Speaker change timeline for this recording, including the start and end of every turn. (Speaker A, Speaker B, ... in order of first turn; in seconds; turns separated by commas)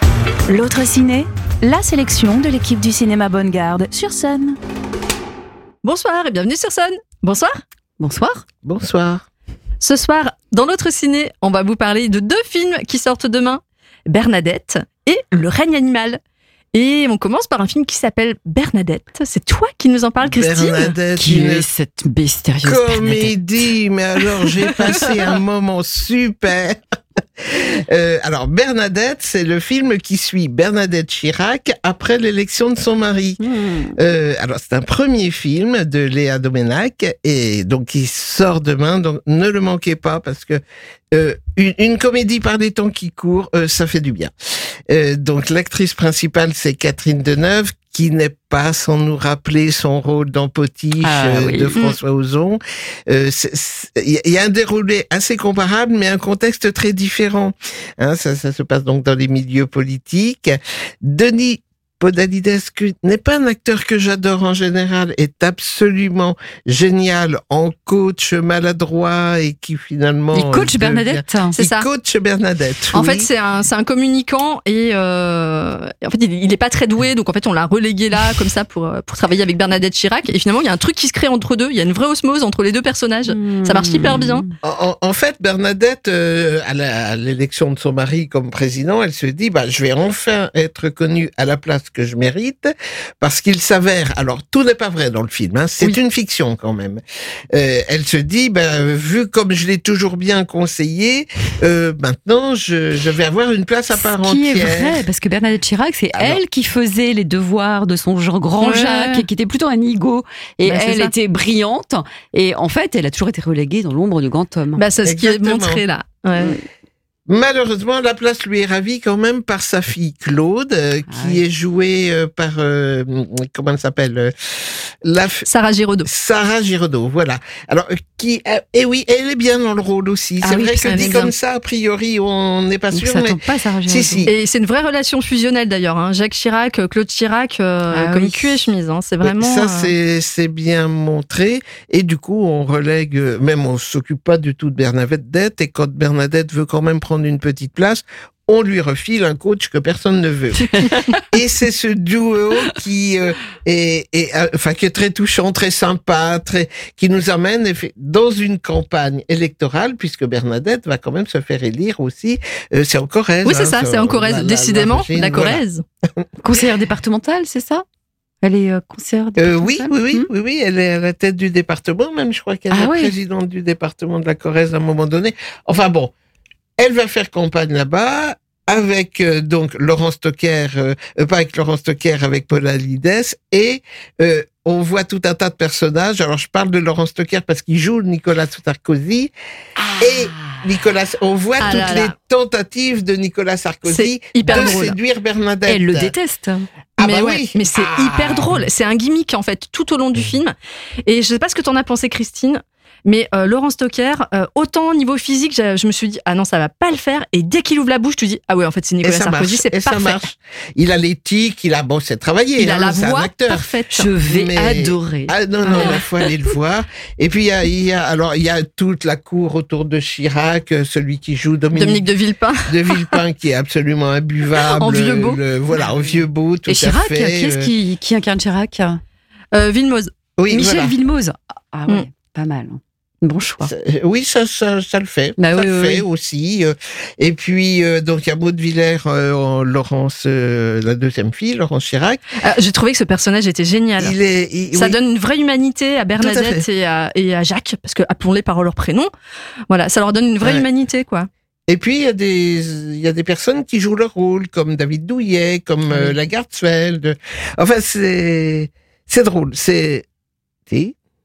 Speaker A: 0.5-4.6, Speaker B: 5.8-7.6, Speaker C: 8.0-8.4, Speaker D: 8.7-9.2, Speaker B: 9.8-16.2, Speaker B: 16.7-20.9, Speaker D: 20.2-21.7, Speaker C: 21.1-23.6, Speaker D: 22.6-26.8, Speaker D: 27.4-33.4, Speaker C: 33.4-34.0, Speaker D: 34.0-40.6, Speaker D: 41.1-44.3, Speaker D: 44.9-73.3, Speaker C: 51.0-51.8, Speaker C: 70.3-71.6, Speaker B: 71.5-71.9, Speaker B: 72.9-84.5, Speaker C: 83.3-84.5, Speaker D: 84.6-105.0, Speaker C: 103.9-114.8, Speaker D: 106.1-106.4, Speaker B: 108.6-109.3, Speaker B: 110.7-111.1, Speaker B: 114.8-116.6, Speaker D: 115.0-115.8, Speaker D: 117.3-125.5, Speaker C: 121.1-121.4, Speaker B: 125.4-126.1, Speaker D: 126.0-134.3, Speaker C: 130.4-131.3, Speaker B: 130.8-131.3, Speaker C: 132.9-134.3, Speaker B: 134.3-139.9, Speaker C: 137.9-138.7, Speaker D: 139.2-165.6, Speaker C: 150.6-151.2, Speaker B: 163.4-165.8, Speaker C: 166.4-167.8, Speaker C: 168.4-170.3, Speaker D: 169.4-176.1, Speaker C: 172.7-173.2, Speaker D: 176.8-189.3, Speaker C: 189.8-190.7, Speaker D: 190.0-196.2, Speaker B: 191.6-192.1, Speaker B: 193.9-195.0, Speaker C: 195.7-196.7, Speaker D: 197.0-198.5, Speaker B: 197.0-210.2, Speaker D: 209.0-213.7, Speaker B: 212.6-214.1, Speaker C: 213.9-216.3, Speaker D: 214.2-222.1, Speaker B: 221.7-223.2, Speaker D: 222.7-227.7, Speaker B: 224.6-225.4, Speaker C: 226.7-229.0, Speaker B: 229.5-230.1, Speaker D: 230.4-231.0, Speaker C: 230.5-233.7, Speaker D: 233.6-242.2, Speaker C: 235.4-236.1, Speaker B: 242.4-244.2, Speaker D: 244.0-245.0, Speaker B: 244.7-249.1, Speaker D: 246.2-246.6, Speaker B: 249.7-251.3, Speaker D: 251.7-260.1, Speaker D: 260.7-260.9